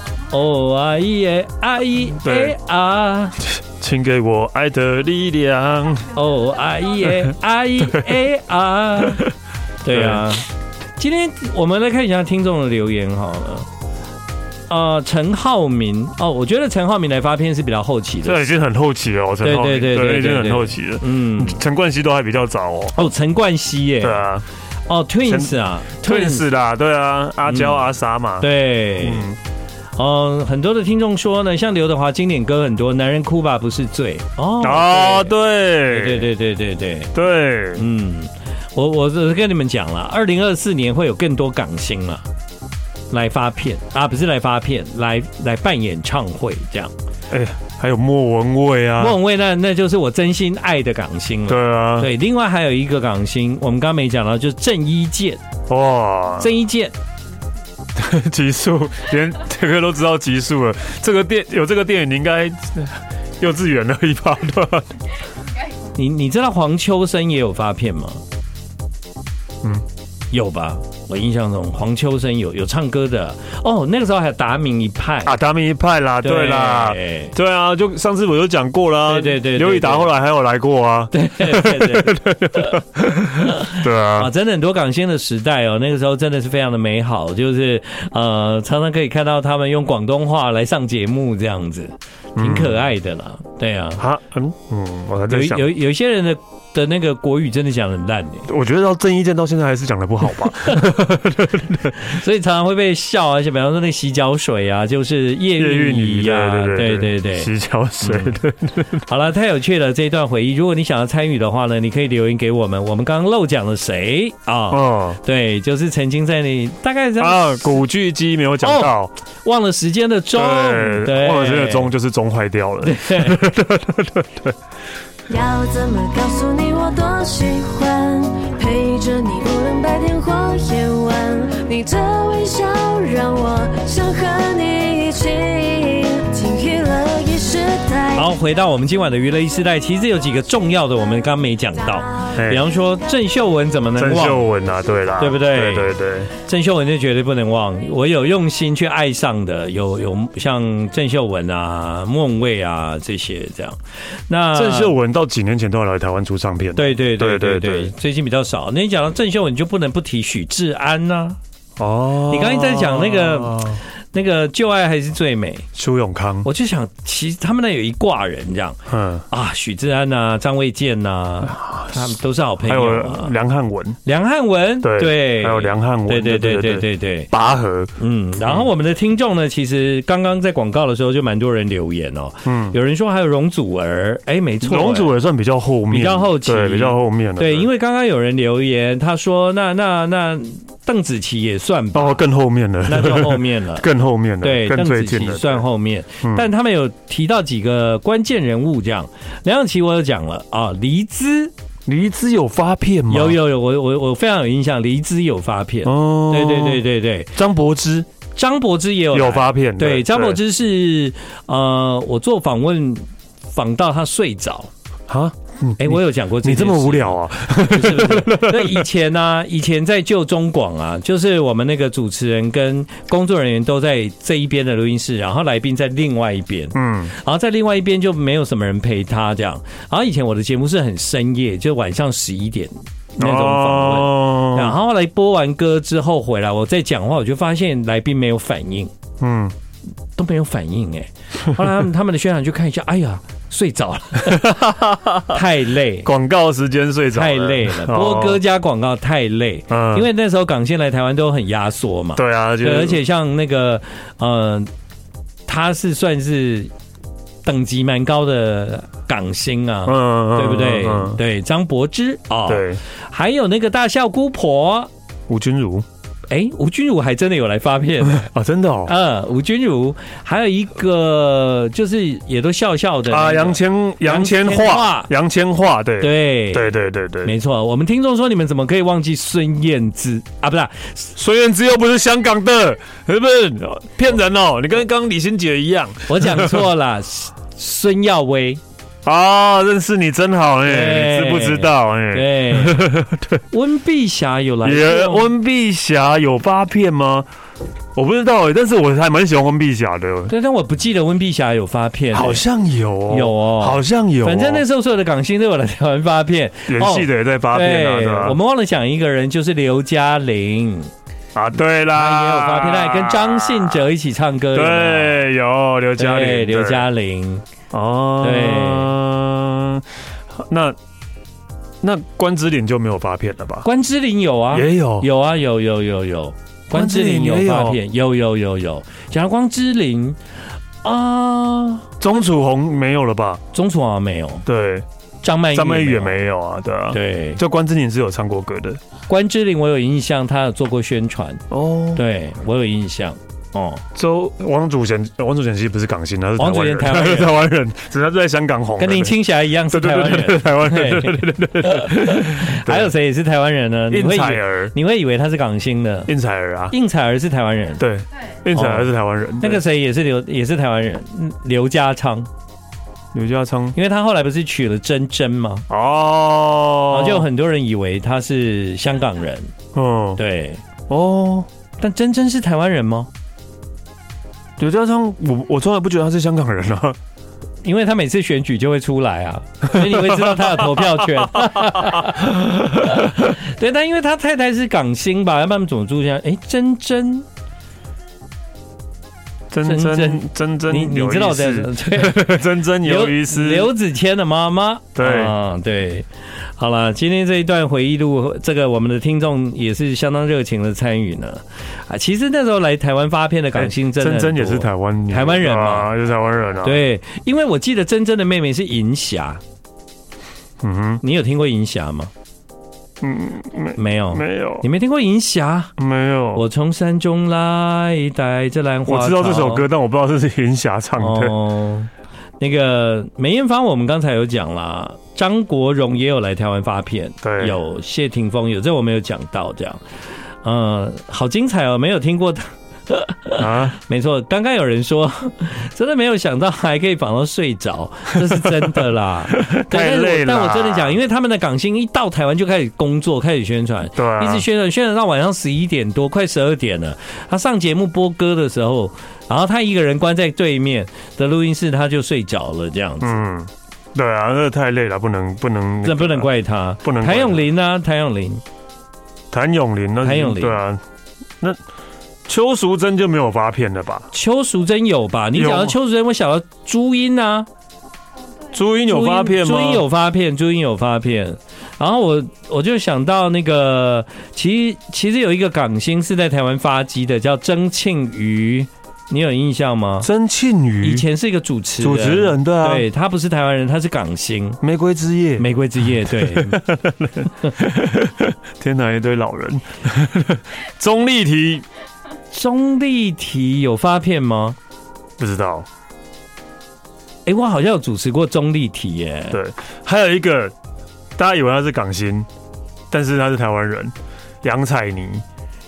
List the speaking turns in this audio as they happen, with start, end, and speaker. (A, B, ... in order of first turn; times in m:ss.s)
0:00.3-0:03.4 A
0:02.2-0:02.6 B
0:03.4-0:06.1 B
0:06.1-0:09.3 A
0:07.0-0:07.3 B
0:09.0-0:09.3 B
0:09.8-0:13.7 A
0:09.9-0:10.3 B
0:14.7-0:18.4 A
0:18.2-0:23.1 B
0:19.4-0:21.6 A
0:23.0-0:24.2 A
0:24.0-0:24.4 B
0:24.9-0:26.5 A
0:25.2-0:29.4 B
0:27.5-0:27.9 A
0:28.4-0:29.3 A
0:30.0-0:35.3 A
0:34.6-0:36.3 B
0:35.9-0:37.1 A
0:37.1-0:37.8 B
0:37.8-0:42.2 A
0:43.1-0:46.9 A
0:47.3-0:49.2 B
0:49.0-0:55.4 A
0:51.5-0:52.1 B
0:55.7-0:56.5 B
0:56.4-0:56.9 A
0:58.0-1:05.0 B
1:05.9-1:08.2 A
1:10.3-1:15.3 A
1:15.2-1:24.3 B
1:16.2-1:17.3 A
1:19.1-1:20.1 A
1:21.1-1:22.8 A
1:23.4-1:34.0 A
1:32.4-1:32.8 B
1:34.0-1:35.7 B
1:35.3-1:38.5 A
1:38.5-1:42.0 B
1:41.9-1:47.5 A
1:45.6-1:49.0 B
1:48.0-1:48.4 A
1:49.1-1:57.8 A
1:54.7-1:55.2 B
1:57.2-1:59.1 B
1:58.6-1:58.9 A
1:59.4-2:01.9 A
2:00.4-2:04.6 B
2:02.8-2:03.4 A
2:05.3-2:18.3 C
2:18.2-2:24.5 A
2:22.3-2:22.6 B
2:24.0-2:26.3 B
2:25.2-2:35.0 A
2:34.5-2:37.9 B
2:36.8-2:41.4 A
2:41.8-2:43.8 B
2:42.3-2:45.6 A
2:45.8-2:46.5 B
2:46.4-2:48.8 A
2:48.9-2:49.2 B
2:49.3-2:53.3 A
2:51.4-2:52.1 B
2:52.6-2:54.0 B
2:54.0-2:57.3 A
2:54.8-2:57.9 B
2:58.0-3:05.1 A
3:02.5-3:02.8 B
3:04.6-3:07.7 B
3:05.9-3:12.2 A
3:11.9-3:15.6 B
3:12.9-3:13.9 A
3:14.4-3:21.5 A
3:16.2-3:16.5 B
3:21.9-3:23.4 B
3:23.1-3:27.3 A
3:25.8-3:28.1 B
3:28.4-3:34.7 A
3:29.1-3:30.4 B
3:35.1-3:38.9 B
3:35.8-3:58.9 A
3:46.7-3:47.1 B
3:53.2-3:54.8 B
3:59.2-3:59.5 B
4:00.2-4:04.5 A
4:04.2-4:05.4 B
4:05.3-4:06.1 A
4:06.0-4:08.4 B
4:07.1-4:14.7 A
4:09.7-4:10.1 B
4:12.2-4:13.0 B
4:15.5-4:16.7 A
4:17.4-4:24.9 A
4:19.9-4:21.2 B
4:22.5-4:22.8 B
4:25.3-4:25.9 B
4:26.3-4:28.3 A
4:28.1-4:28.9 B
4:28.9-4:35.1 A
4:33.1-4:37.3 B
4:36.0-4:36.7 A
4:37.2-4:41.1 A
4:41.2-4:46.7 B
4:46.1-4:48.6 A
4:49.0-4:53.4 B
4:50.6-4:52.9 A
4:53.5-4:55.3 A
4:54.6-4:57.3 B
4:57.9-5:00.3 B
5:00.3-5:02.4 A
5:02.1-5:04.6 B
5:03.1-5:10.9 A
5:06.7-5:08.4 B
5:11.4-5:13.9 B
5:11.9-5:15.2 A
5:14.5-5:16.9 B
5:16.0-5:17.4 A
5:17.7-5:20.8 B
5:18.2-5:18.9 A
5:21.8-5:23.7 B
5:23.6-5:30.2 A
5:24.5-5:25.1 B
5:26.7-5:27.8 B
5:30.8-5:31.9 A
5:32.0-5:33.4 B
5:33.5-5:34.4 A
5:34.4-5:34.9 B
5:35.2-5:36.2 A
5:35.5-5:38.8 B
5:36.9-5:37.4 A
5:39.1-5:41.4 A
5:41.5-5:42.0 B
5:41.9-5:43.8 A
5:43.9-5:52.9 B
5:46.4-5:47.4 A
5:48.8-5:56.1 A
5:53.9-5:54.7 B
5:56.1-5:56.7 B
5:56.7-5:57.8 A
5:57.8-5:59.6 B
5:58.5-5:58.9 A
5:59.4-6:02.3 A
6:03.1-6:03.8 B
6:03.8-6:05.6 A
6:05.7-6:07.3 B
6:06.9-6:09.5 A
6:09.7-6:10.2 B
6:10.2-6:10.6 A
6:10.9-6:11.5 B
6:11.8-6:13.1 A
6:14.6-6:17.0 B
6:17.6-6:27.3 A
6:19.7-6:23.1 B
6:29.5-6:33.7 B
6:29.6-6:45.9 A
6:35.0-6:35.3 B
6:43.6-6:46.8 B
6:46.6-6:49.4 A
6:50.6-6:51.0 B
6:51.0-6:52.1 A
6:53.0-6:54.6 B
6:53.8-6:55.7 A
6:55.8-6:56.4 B
6:56.3-6:59.6 A
6:58.9-7:01.4 B
7:01.0-7:09.8 A
7:07.2-7:07.6 B
7:10.4-7:33.2 A
7:13.4-7:13.8 B
7:18.2-7:21.0 B
7:24.0-7:24.4 B
7:33.0-7:36.3 B
7:35.8-7:38.4 A
7:36.8-7:37.4 B
7:39.3-7:40.8 B
7:40.0-7:40.6 A
7:42.3-7:44.1 B
7:44.1-7:47.5 A
7:45.3-7:45.8 B
7:48.5-7:49.8 B
7:48.8-8:00.1 A
8:00.0-8:01.1 B
8:00.8-8:04.6 A
8:01.8-8:02.9 B
8:04.6-8:11.6 B
8:05.4-8:06.6 A
8:12.3-8:14.6 A
8:15.2-8:15.7 B
8:17.3-8:19.4 A
8:19.3-8:20.5 B
8:21.2-8:22.3 B
8:22.9-8:25.2 B